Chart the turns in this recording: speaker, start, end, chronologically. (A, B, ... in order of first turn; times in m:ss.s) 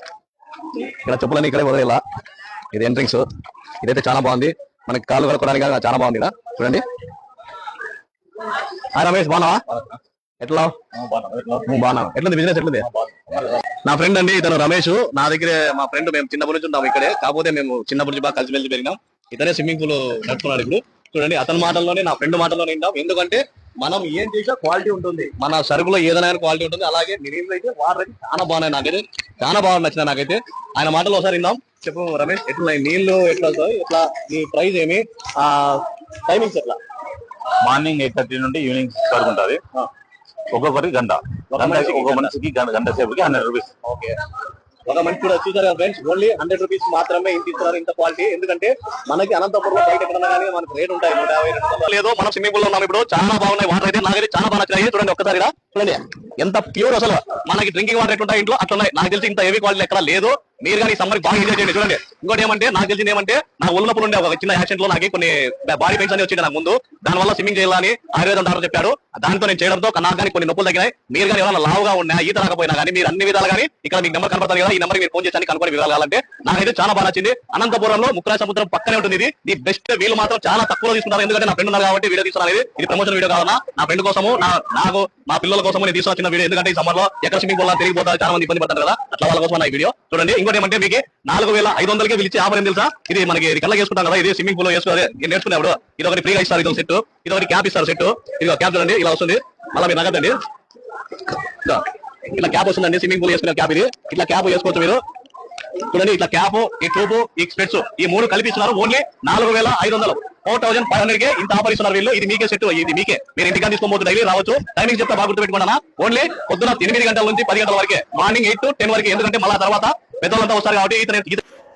0:01.0-0:02.0 A
0:02.7-0:03.2 A
0:03.8-0:06.8 A
0:08.9-0:09.8 A
0:10.4-0:10.8 A
0:10.9-0:11.7 B
0:11.6-0:12.9 A
0:12.9-0:13.4 B
0:13.8-0:36.8 A
0:37.6-0:39.6 B
0:40.5-0:43.7 B
0:41.5-0:42.4 A
0:43.8-0:44.2 A
0:44.9-1:40.4 A
1:41.5-1:45.0 A
1:45.8-2:01.4 A